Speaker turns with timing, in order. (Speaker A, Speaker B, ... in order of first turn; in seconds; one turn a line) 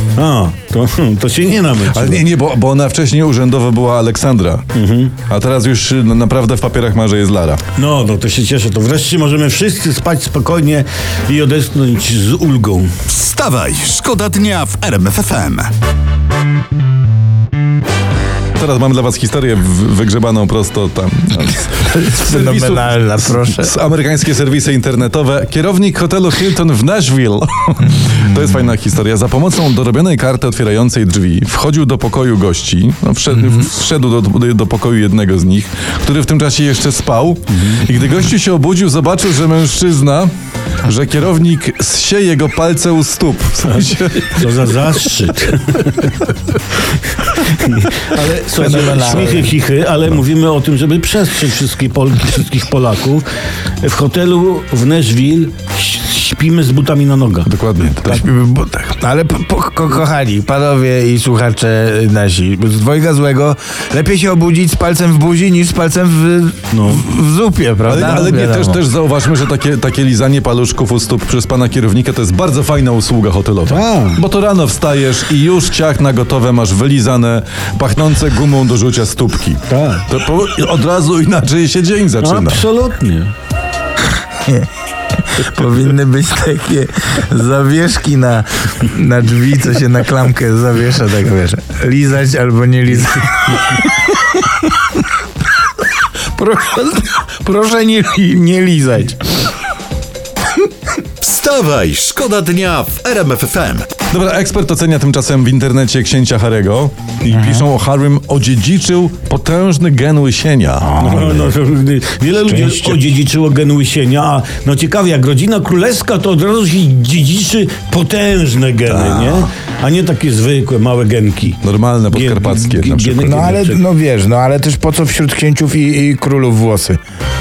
Speaker A: 0.2-2.2
Speaker B: 1.9-4.7
Speaker A: 4.8-5.2
Speaker B: 5.3-7.6
Speaker A: 7.8-12.9
Speaker C: 13.1-15.7
Speaker B: 18.6-40.3
Speaker D: 21.8-23.7
Speaker B: 40.9-44.5
Speaker A: 44.3-46.3
Speaker A: 47.2-53.2
Speaker D: 48.6-49.5
Speaker A: 53.8-57.5
Speaker B: 57.5-58.3
Speaker D: 58.0-68.8
Speaker A: 66.7-67.0
Speaker B: 67.9-82.6
Speaker A: 73.7-74.2
Speaker A: 79.7-80.0
Speaker A: 82.2-83.3
Speaker D: 85.3-93.9
Speaker D: 96.3-99.5
Speaker C: 101.2-104.0
Speaker B: 104.1-111.4
Speaker D: 107.3-107.7
Speaker D: 110.8-111.5
Speaker A: 111.0-123.8
Speaker D: 112.5-113.0
Speaker B: 118.9-119.5
Speaker B: 121.6-123.5
Speaker D: 123.2-127.0